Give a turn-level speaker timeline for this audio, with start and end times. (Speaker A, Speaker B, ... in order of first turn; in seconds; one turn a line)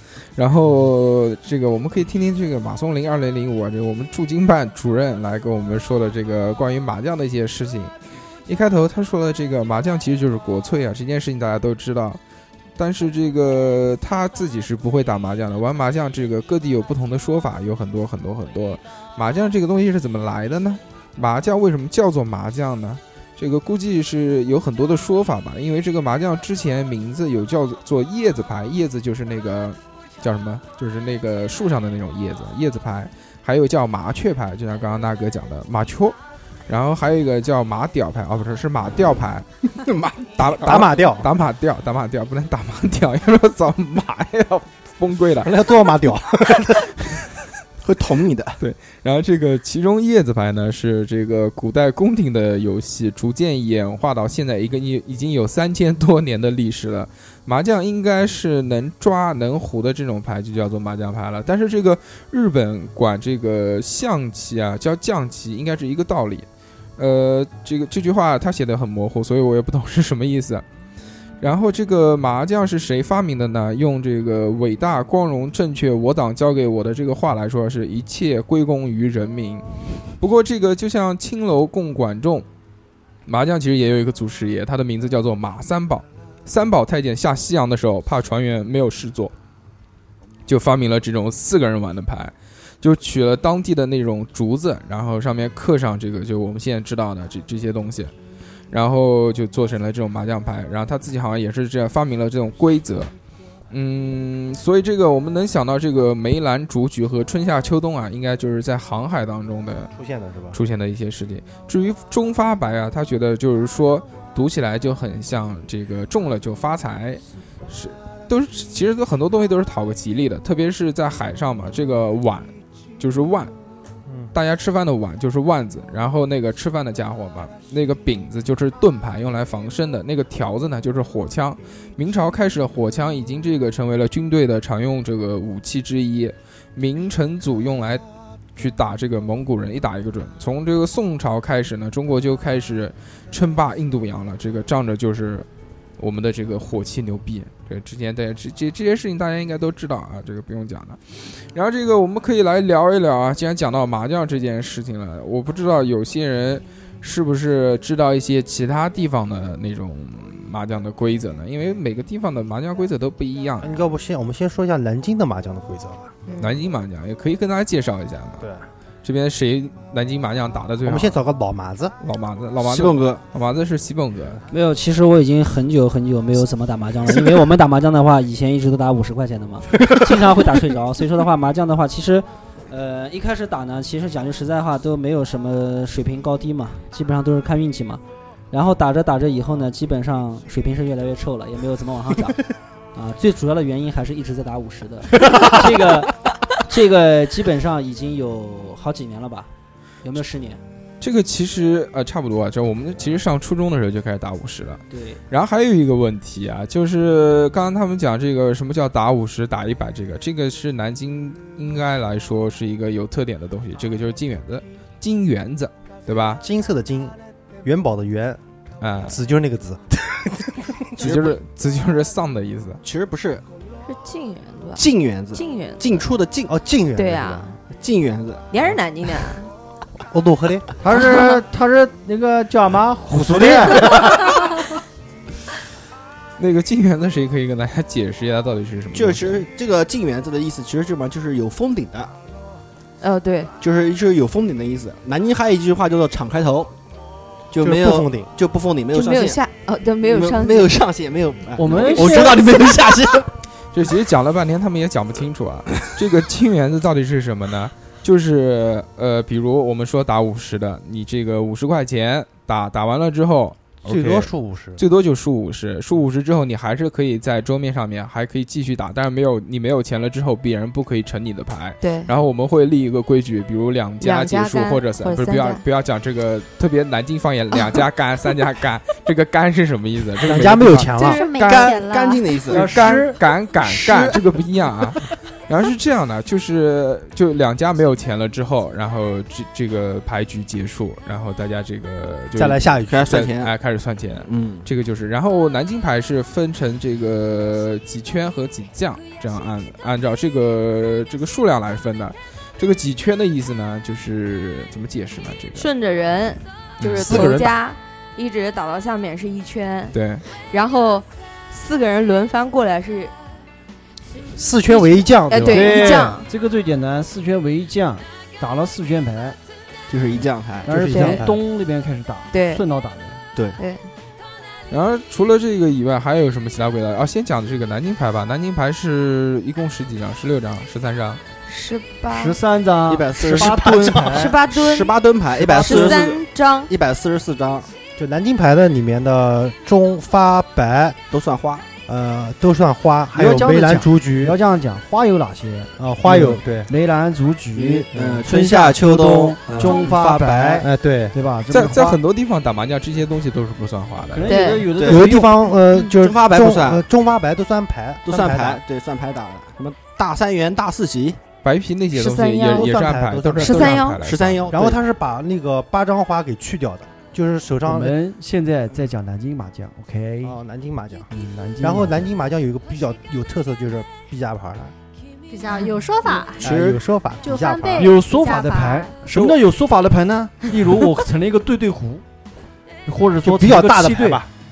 Speaker A: 0.4-7.9
Speaker A: 8.5-12.2
Speaker A: 12.8-36.2
Speaker A: 36.7-39.5
Speaker B: 39.8-40.8
Speaker A: 40.4-45.7
Speaker C: 40.6-41.3
Speaker C: 45.4-47.0
Speaker B: 47.8-48.6
Speaker A: 48.6-66.5
Speaker A: 67.0-70.7
Speaker A: 71.4-82.5
Speaker A: 83.3-89.3
Speaker A: 90.5-98.1
Speaker A: 98.7-103.1
Speaker A: 103.7-109.9
Speaker C: 109.9-110.6
Speaker A: 110.5-123.5
Speaker C: 124.1-124.3
Speaker A: 124.3-138.0
Speaker A: 138.6-145.5
Speaker A: 146.0-163.9
Speaker C: 163.6-166.1
Speaker D: 166.3-166.6
Speaker A: 166.4-168.5
Speaker C: 168.4-168.7
Speaker A: 169.0-171.2
Speaker C: 170.8-171.9
Speaker A: 172.0-174.4
Speaker B: 172.6-173.2
Speaker E: 174.5-199.5
Speaker E: 200.0-200.6
Speaker A: 201.0-216.4
Speaker E: 204.9-205.2
Speaker C: 216.4-218.4
Speaker A: 218.8-219.2
Speaker C: 219.0-221.1
Speaker A: 221.0-222.8
Speaker B: 221.0-221.4
Speaker B: 222.8-223.4
Speaker D: 223.9-224.8
Speaker B: 224.8-226.5
Speaker D: 225.3-225.8
Speaker C: 226.5-227.6
Speaker D: 227.0-227.6
Speaker B: 227.8-228.4
Speaker D: 228.5-229.5
Speaker C: 230.1-231.2
Speaker F: 230.8-234.3
Speaker C: 233.0-234.3
Speaker B: 233.3-233.8
Speaker A: 236.4-239.5
Speaker B: 238.9-242.1
Speaker D: 243.0-243.5
Speaker B: 243.6-246.7
Speaker B: 247.5-249.4
Speaker C: 247.6-248.3
Speaker D: 248.9-250.7
Speaker B: 250.1-253.3
Speaker F: 251.6-252.4
Speaker D: 251.8-252.4
Speaker A: 253.7-281.0
Speaker C: 263.9-264.8
Speaker D: 271.8-272.1
Speaker D: 274.0-275.6
Speaker C: 280.2-281.3
Speaker G: 280.9-282.4
Speaker D: 281.0-281.7
Speaker B: 281.4-282.7
Speaker F: 282.5-283.2
Speaker A: 282.5-305.7
Speaker C: 283.7-284.2
Speaker C: 292.4-293.2
Speaker B: 292.9-293.5
Speaker B: 294.3-294.7
Speaker D: 305.6-313.1
Speaker A: 306.8-307.5
Speaker C: 307.1-307.4
Speaker A: 309.9-310.2
Speaker C: 314.4-316.0
Speaker D: 315.3-316.3
Speaker F: 315.4-319.4
Speaker B: 319.9-321.2
Speaker F: 320.7-323.2
Speaker D: 320.7-321.2
Speaker D: 322.3-322.6
Speaker D: 323.6-323.8
Speaker A: 324.7-331.2
Speaker D: 331.5-332.4
Speaker F: 332.1-334.4
Speaker B: 332.9-337.7
Speaker D: 334.1-334.9
Speaker F: 335.4-336.0
Speaker D: 335.6-336.7
Speaker C: 338.0-341.0
Speaker B: 341.1-341.7
Speaker C: 341.9-344.4
Speaker F: 343.1-352.0
Speaker C: 345.8-346.7
Speaker B: 347.5-350.6
Speaker C: 350.6-351.1
Speaker A: 351.5-354.3
Speaker F: 354.1-355.3
Speaker D: 354.3-354.7
Speaker B: 354.8-355.1
Speaker C: 354.8-358.6
Speaker B: 356.0-356.8
Speaker B: 358.1-361.2
Speaker A: 361.4-364.6
Speaker D: 361.9-362.7
Speaker C: 362.5-363.9
Speaker D: 363.4-364.0
Speaker B: 364.0-364.8
Speaker C: 364.5-368.0
Speaker F: 367.6-370.4
Speaker C: 370.2-371.1
Speaker F: 371.1-372.0
Speaker C: 371.6-374.8
Speaker G: 375.3-376.4
Speaker B: 376.4-376.8
Speaker C: 376.4-377.9
Speaker G: 377.2-379.0
Speaker F: 377.8-382.0
Speaker F: 382.9-384.3
Speaker C: 383.2-384.3